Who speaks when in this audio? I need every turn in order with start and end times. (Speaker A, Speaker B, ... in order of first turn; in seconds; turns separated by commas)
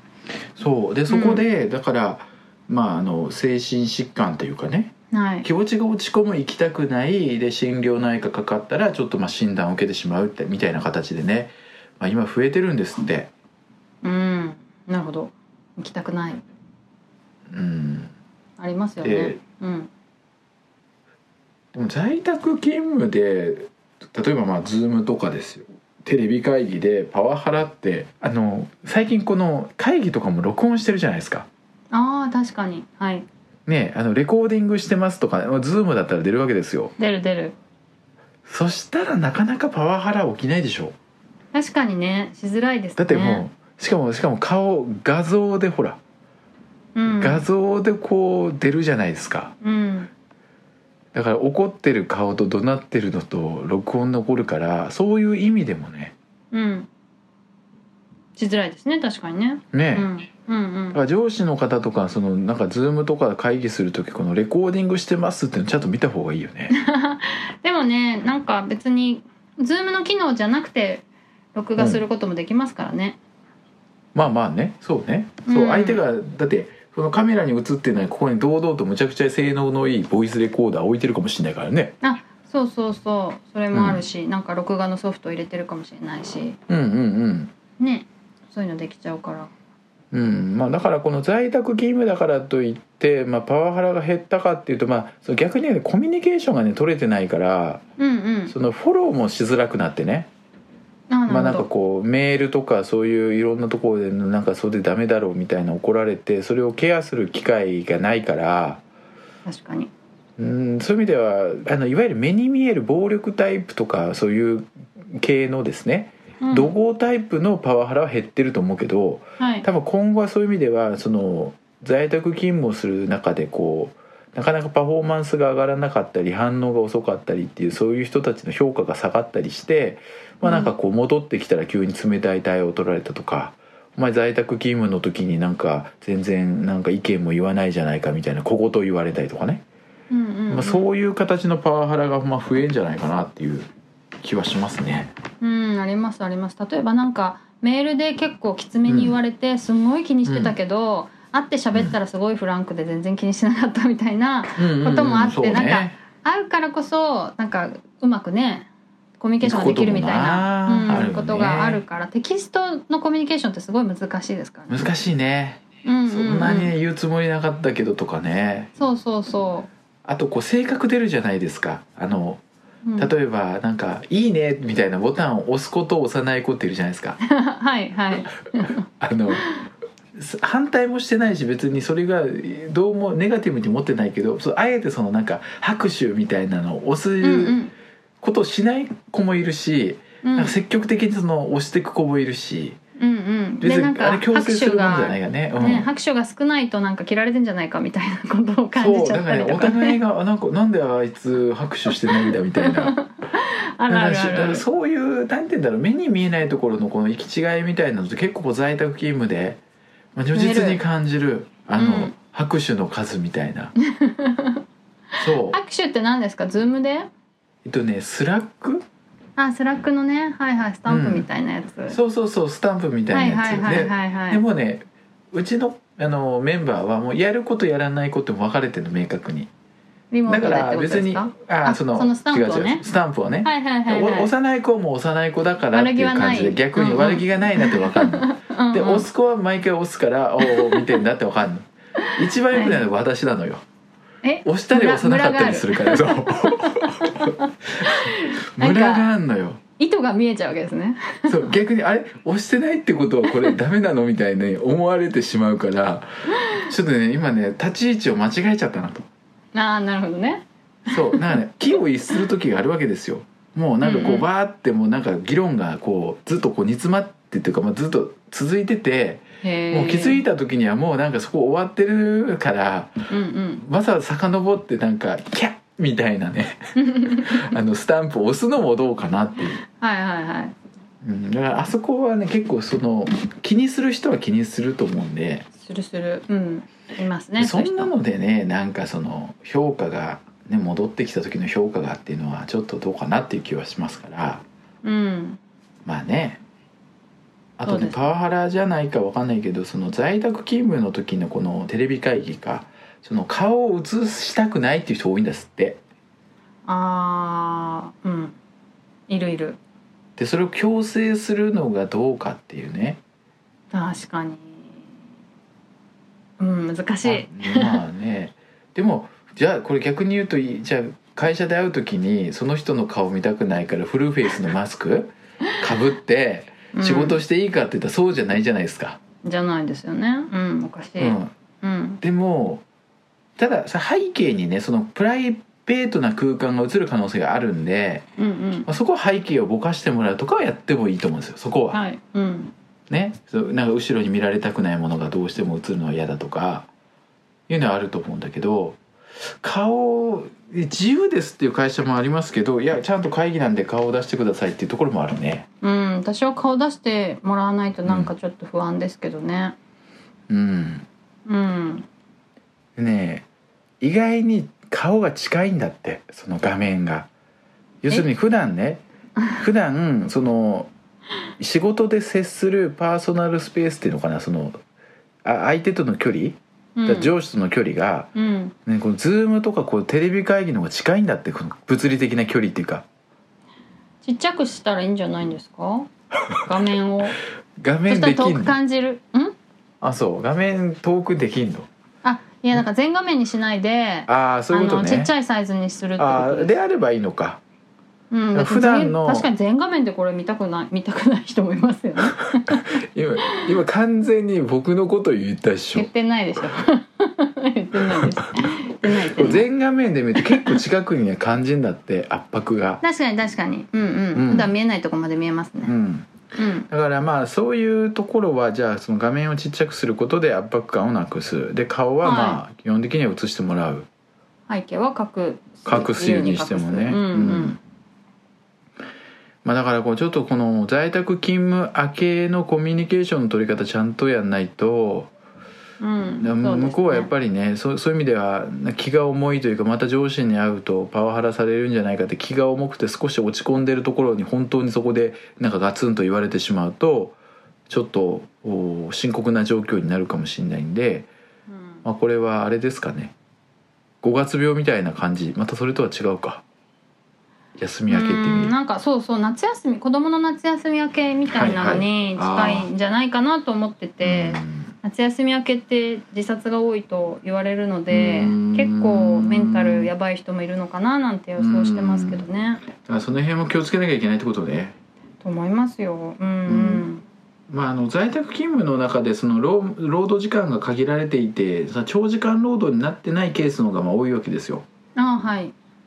Speaker A: 0.6-13.3, Speaker B: 1.1-1.4, Speaker B: 5.1-5.5, Speaker B: 14.0-16.4, Speaker A: 17.5-18.1, Speaker B: 18.6-19.9, Speaker A: 19.0-19.4, Speaker A: 21.7-31.5, Speaker B: 31.9-33.2, Speaker A: 33.6-36.9, Speaker B: 37.0-37.5, Speaker A: 38.5-40.9, Speaker B: 41.5-43.4, Speaker A: 43.0-46.0, Speaker B: 46.9-47.5, Speaker A: 47.2-49.5, Speaker B: 49.6-50.1, Speaker A: 51.1-56.1, Speaker B: 56.5-56.9, Speaker B: 58.4-61.0, Speaker A: 59.7-60.1, Speaker A: 60.9-66.7, Speaker B: 66.7-73.2, Speaker A: 71.8-72.0, Speaker A: 74.1-81.9, Speaker B: 75.5-76.0, Speaker B: 82.0-86.6, Speaker A: 83.7-84.0, Speaker A: 86.7-87.5, Speaker B: 87.8-89.5, Speaker A: 90.1-97.8, Speaker B: 98.0-98.5, Speaker A: 98.5-100.3, Speaker B: 101.1-101.7, Speaker A: 101.3-108.8, Speaker B: 109.5-109.9, Speaker A: 110.4-139.6, Speaker B: 116.4-116.7, Speaker B: 119.4-119.7, Speaker B: 130.4-130.7, Speaker B: 140.1-140.9, Speaker A: 140.5-143.7, Speaker A: 144.2-145.1, Speaker B: 145.4-158.7, Speaker A: 148.9-149.2, Speaker A: 150.2-150.6, Speaker A: 154.6-156.0, Speaker B: 159.2-164.9, Speaker A: 159.4-161.8, Speaker A: 164.7-168.7, Speaker B: 165.8-166.7, Speaker B: 168.8-169.7, Speaker A: 170.0-172.4, Speaker B: 172.8-173.1, Speaker A: 173.0-177.2, Speaker B: 177.2-178.8, Speaker A: 179.0-179.4, Speaker A: 180.1-187.6, Speaker B: 187.2-187.7, Speaker A: 188.2-192.8, Speaker B: 190.2-190.5, Speaker B: 193.0-200.0, Speaker A: 193.6-195.9, Speaker A: 198.8-202.9, Speaker B: 202.1-204.6, Speaker A: 203.9-209.6, Speaker A: 210.1-213.7, Speaker B: 210.3-210.8, Speaker B: 211.8-212.1, Speaker B: 213.8-214.6, Speaker A: 215.2-215.6, Speaker B: 215.2-217.1, Speaker A: 217.6-218.8, Speaker B: 219.4-222.0, Speaker A: 220.9-221.3, Speaker A: 221.9-229.5, Speaker B: 223.1-224.4, Speaker B: 230.1-232.8, Speaker A: 230.3-243.6, Speaker B: 233.4-234.3, Speaker B: 235.7-239.1, Speaker B: 240.4-240.8, Speaker B: 242.5-242.8, Speaker B: 244.2-249.1, Speaker A: 244.4-249.6, Speaker B: 249.8-251.4, Speaker A: 251.3-259.1, Speaker B: 253.3-253.6, Speaker B: 259.5-261.4, Speaker A: 260.9-272.9, Speaker B: 263.8-264.3, Speaker B: 269.4-270.2, Speaker B: 273.1-273.6, Speaker A: 273.6-279.6, Speaker B: 276.8-277.5, Speaker B: 279.7-280.5, Speaker A: 281.0-285.5, Speaker B: 285.6-287.9, Speaker A: 287.4-294.4, Speaker B: 294.8-295.4, Speaker A: 295.8-296.4, Speaker A: 297.6-305.8, Speaker B: 297.6-298.0, Speaker B: 306.6-308.4, Speaker B: 309.1-309.6, Speaker A: 310.2-313.0, Speaker B: 313.7-314.8, Speaker B: 316.4-317.8, Speaker A: 317.0-329.0, Speaker B: 326.7-327.2, Speaker B: 329.2-332.0, Speaker A: 331.0-331.3, Speaker A: 332.0-332.6, Speaker A: 333.4-338.0, Speaker B: 338.2-338.7, Speaker A: 338.6-341.8, Speaker B: 341.7-342.5, Speaker A: 342.9-346.7, Speaker A: 347.5-348.8, Speaker A: 349.4-355.4, Speaker B: 355.6-359.6, Speaker A: 360.3-360.9, Speaker B: 361.2-361.9, Speaker A: 362.8-363.2, Speaker A: 363.8-367.1, Speaker A: 367.8-368.8, Speaker A: 369.4-370.7, Speaker A: 371.4-374.6, Speaker A: 375.2-378.1, Speaker B: 376.8-377.1, Speaker B: 378.1-378.5, Speaker A: 378.6-382.8, Speaker B: 384.0-385.9, Speaker B: 386.4-387.2, Speaker A: 387.6-388.6, Speaker B: 387.9-389.3, Speaker A: 389.8-391.7, Speaker B: 392.0-396.5, Speaker A: 394.1-395.1, Speaker A: 396.0-397.4, Speaker B: 398.1-402.6, Speaker A: 398.3-399.3, Speaker A: 402.1-405.9, Speaker B: 405.7-409.4, Speaker A: 408.9-412.8, Speaker B: 412.8-415.7, Speaker A: 414.1-414.5, Speaker A: 415.6-416.1, Speaker B: 416.4-416.7, Speaker A: 416.7-423.9, Speaker B: 422.0-422.4, Speaker B: 424.5-427.6, Speaker A: 425.6-427.6, Speaker A: 429.4-435.1, Speaker B: 435.8-437.1, Speaker A: 436.2-447.2, Speaker A: 447.7-451.1, Speaker B: 451.5-451.8, Speaker A: 451.8-453.1, Speaker A: 454.0-456.4, Speaker A: 457.6-458.5, Speaker B: 457.9-472.6, Speaker A: 461.3-462.7, Speaker A: 464.0-464.7, Speaker A: 467.9-469.9, Speaker A: 471.4-472.2, Speaker A: 472.8-474.8, Speaker B: 475.2-477.0, Speaker A: 476.4-476.8, Speaker A: 477.5-484.6, Speaker B: 484.9-485.5